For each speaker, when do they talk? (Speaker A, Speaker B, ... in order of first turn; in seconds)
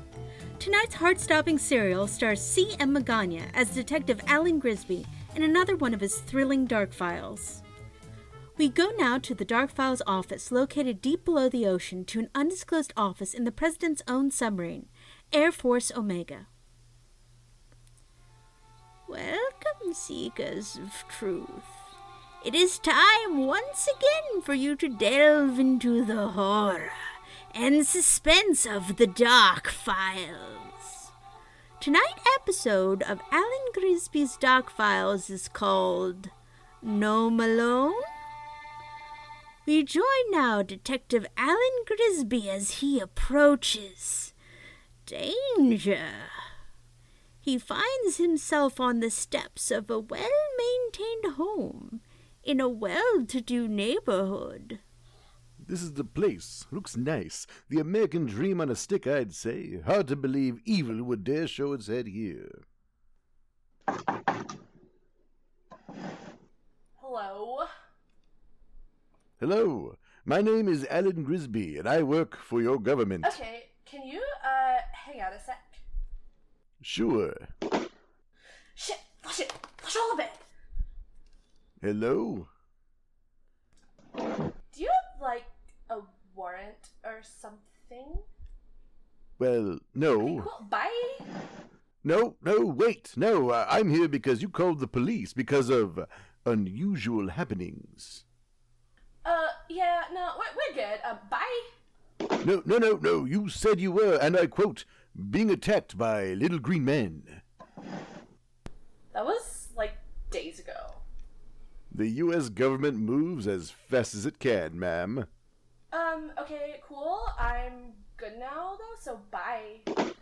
Speaker A: 0.6-7.6, 8.6-16.5, 19.1-21.8, 22.4-27.0, 27.5-31.1, 31.8-38.1, 39.7-44.4, 45.0-46.3, 47.4-54.8
Speaker B: 55.6-62.6, 69.4-73.4, 76.8-77.5, 81.8-82.5, 89.4-90.5, 92.0-98.2, 102.4-107.4, 111.9-115.3
Speaker C: 67.0-67.7, 73.2-75.8, 78.8-80.4, 84.7-88.3, 90.2-91.2, 99.2-101.6, 109.1-111.0, 115.9-119.9